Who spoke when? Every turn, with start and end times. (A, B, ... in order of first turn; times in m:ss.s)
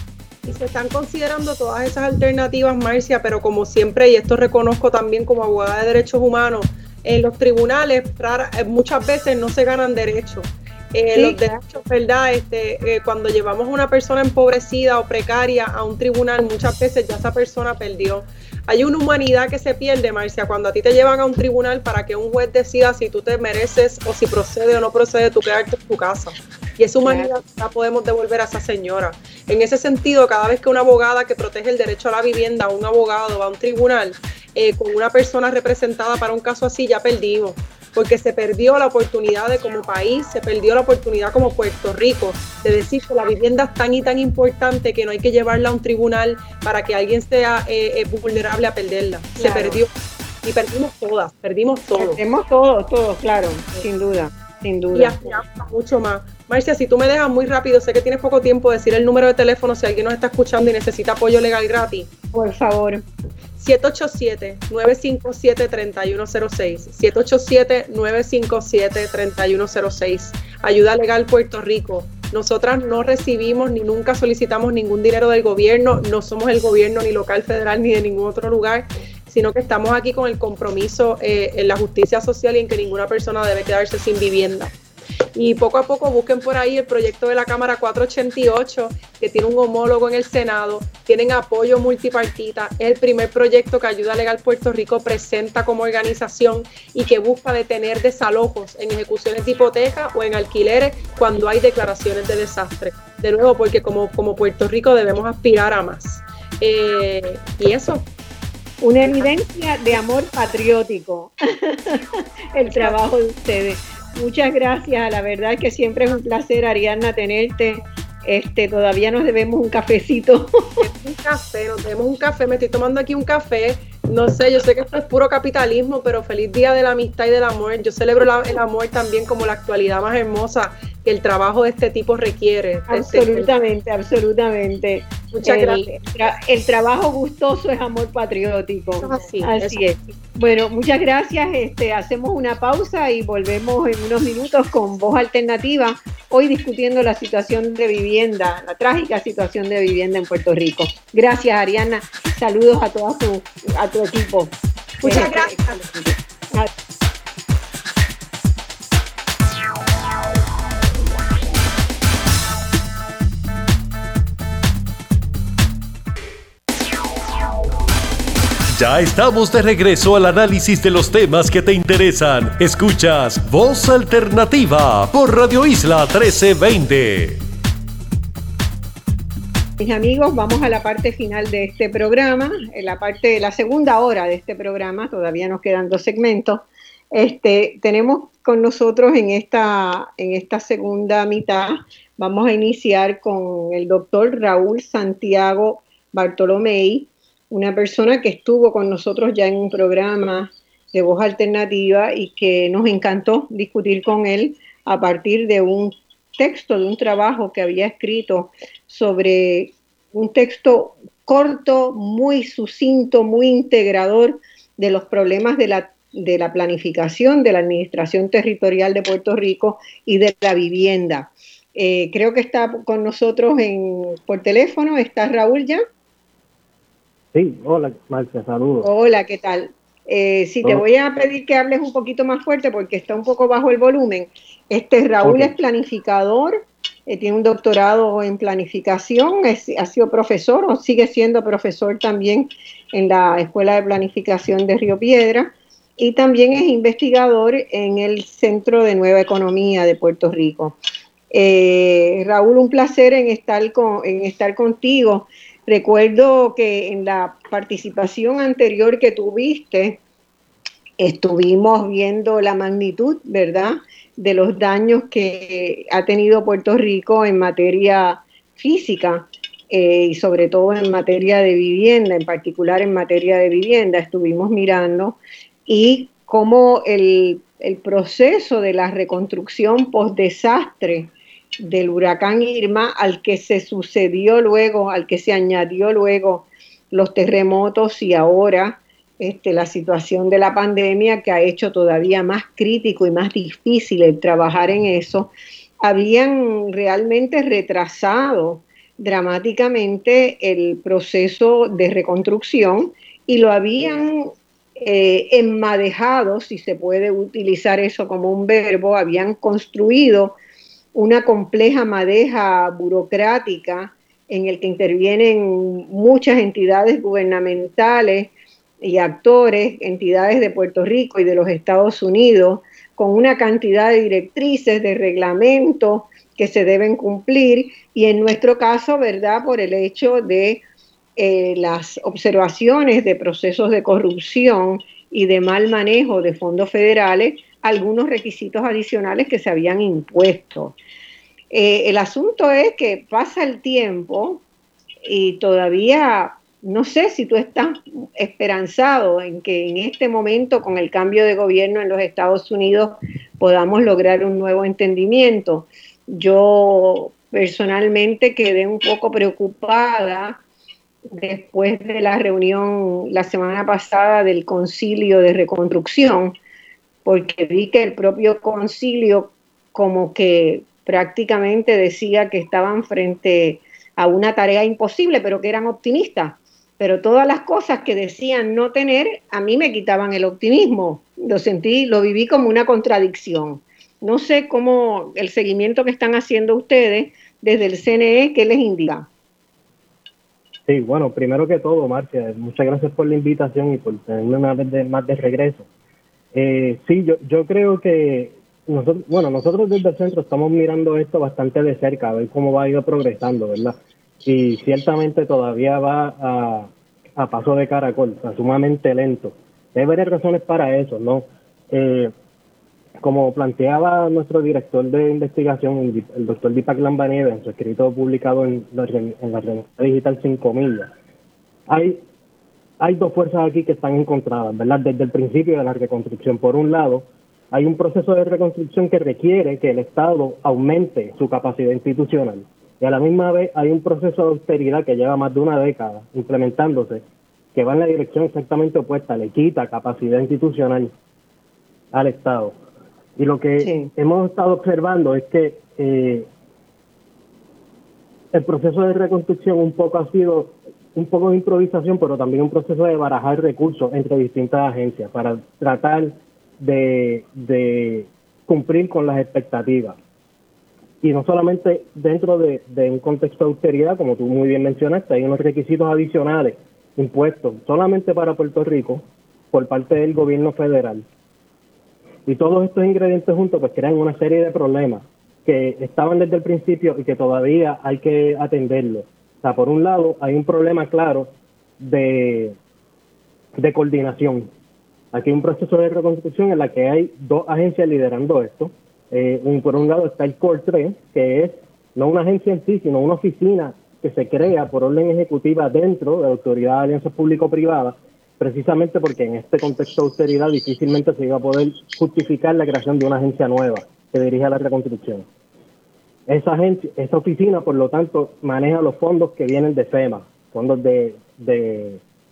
0:00.4-0:49.9 A
0:11.1-0:11.5 B
0:27.0-0:27.4 B
0:49.4-0:49.8 B
0:50.4-0:52.2 A
0:52.0-0:55.4 B
0:54.9-1:02.1 A
1:02.3-1:03.0 B
1:03.6-1:24.7 A
1:25.4-1:48.1 A
1:48.8-2:00.8 B
1:52.7-1:53.0 A
2:00.8-2:13.5 A
2:12.9-2:36.7 B
2:15.3-2:15.9 A
2:19.0-2:19.8 A
2:35.0-2:35.8 A
2:48.7-2:57.4 C
2:59.8-3:45.8 B
3:47.3-3:48.9 D
3:48.8-4:10.8 B
3:55.2-3:55.5 D
4:11.3-4:20.0 B
4:21.0-5:10.4 B
5:11.0-5:18.3 B
5:18.8-5:30.6 B
5:31.2-5:40.8 B
5:41.5-5:44.4 B
5:45.0-6:00.4 B
6:01.1-6:06.4 B
6:07.0-6:29.1 B
6:30.7-6:35.7 D
6:36.3-6:52.1 D
6:53.0-7:00.9 D
7:01.7-7:02.0 D
7:02.8-7:17.0 D
7:17.5-7:20.9 D
7:21.9-7:22.5 D
7:23.2-7:26.3 D
7:23.6-7:23.9 B
7:28.3-7:40.0 D
7:41.0-7:51.0 D
7:52.3-8:02.6 D
8:03.6-8:04.5 D
8:05.1-8:25.2 D
8:26.3-8:32.0 D